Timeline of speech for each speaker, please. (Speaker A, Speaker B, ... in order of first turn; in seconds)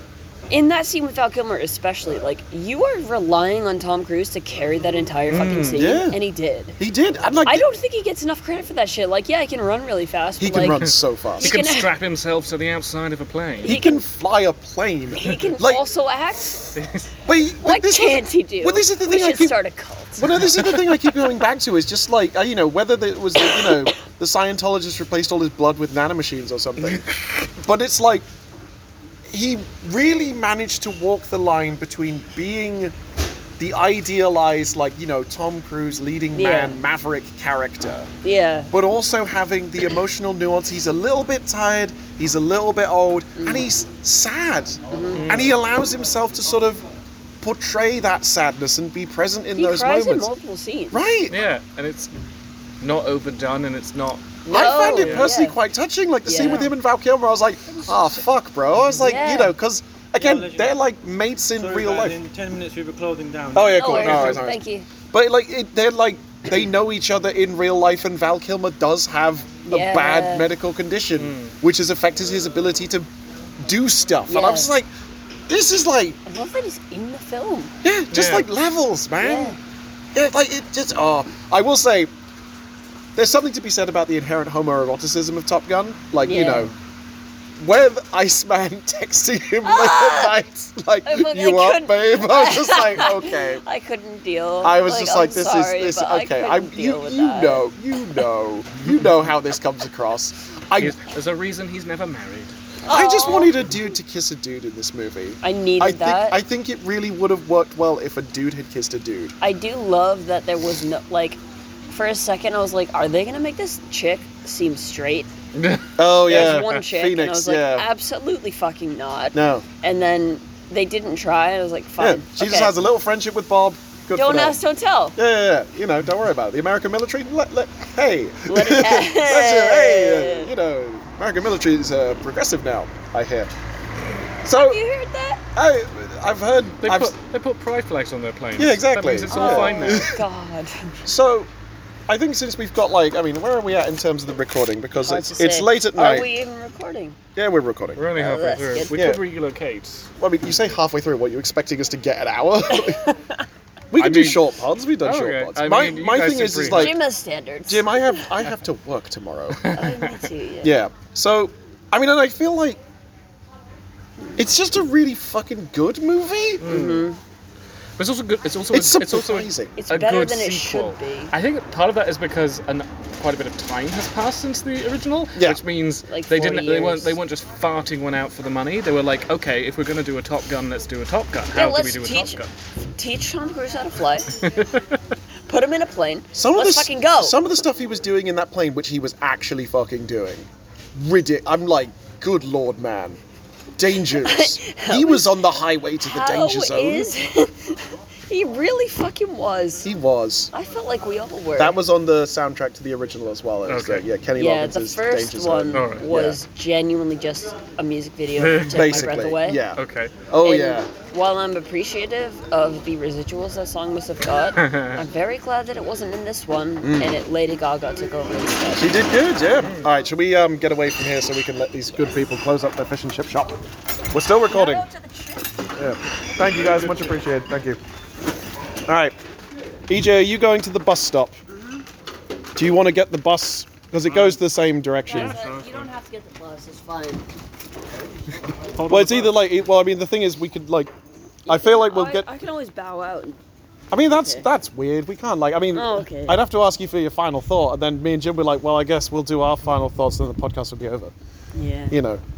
Speaker A: 0.5-6.8, 7.4-10.8, 11.4-11.9, 13.6-14.0, 15.1-16.8, 17.6-20.6, 23.4-23.9, 36.3-36.8, 38.2-38.7, 43.4-43.6, 44.9-45.3, 49.5-51.1, 54.4-55.5, 56.2-56.7, 59.0-59.5, 63.6-64.9, 69.7-70.5, 74.3-74.7, 76.2-77.7, 79.2-79.6, 86.2-86.7, 89.6-90.3, 91.0-97.6, 102.8-103.6, 105.4-106.4, 109.4-115.3, 116.3-122.7, 124.1-125.2, 128.5-130.5, 134.7-135.4, 139.3-140.9, 145.0-147.2, 148.1-148.9, 152.7-153.4, 156.7-158.3, 159.7-160.7, 166.6-167.2, 169.8-171.3, 176.1-177.2, 181.5-182.4, 182.9-184.3, 185.5-187.4, 194.1-195.3, 196.0-199.9, 200.5-201.8, 204.3-209.6, 210.4-218.9, 224.5-225.6, 231.6-231.8, 235.1-237.2, 241.5-243.4, 244.1-244.5, 245.7-246.4, 251.5-251.9
Speaker B: 5.3-5.9, 11.4-13.7, 16.8-17.1, 26.9-27.5, 45.1-45.6, 51.3-52.1, 52.8-54.4, 54.9-55.3, 63.9-64.3, 71.2-71.5, 78.1-78.5, 100.8-102.5, 115.5-116.7, 136.8-140.1, 147.9-150.1, 153.9-154.4, 155.0-156.9, 159.6-160.1, 166.6-167.1, 168.0-182.5, 184.3-185.0, 203.7-204.1, 205.7-206.1, 208.4-209.2, 209.8-210.2, 214.6-215.0, 219.6-219.8, 226.4-227.2, 234.1-234.4, 235.1-235.9, 238.8-239.1
Speaker C: 5.7-6.2, 6.8-7.7, 10.4-11.5, 13.6-15.8, 17.2-19.6, 20.2-27.0, 27.6-28.2, 29.3-32.9, 33.6-38.1, 38.7-46.8, 47.4-50.3, 50.9-51.4, 54.5-62.2, 63.5-64.6, 65.1-73.1, 73.6-74.9, 75.5-76.2, 77.8-79.6, 80.1-82.1, 83.1-86.7, 87.6-93.6, 94.6-101.0, 102.9-109.3, 116.0-117.8, 119.3-119.7, 122.0-124.6, 125.2-133.5, 134.4-134.8, 135.5-137.1, 138.6-140.2, 141.0-141.5, 142.1-146.3, 147.3-148.0, 148.9-149.2, 150.2-153.0, 153.9-157.0, 157.7-159.9, 160.6-162.8, 164.3-166.6, 168.7-169.7, 175.3-175.6, 186.3-193.2, 193.8-197.1, 199.8-200.5, 201.6-206.4, 208.7-210.9, 216.8-217.2, 218.7-223.5, 224.1-224.8, 225.8-227.8, 228.9-229.2, 229.9-231.3, 232.6-235.4, 238.9-240.9, 241.5-242.2, 243.9-251.1, 251.9-252.2
Speaker D: 60.2-60.7, 61.5-64.3, 238.9-239.3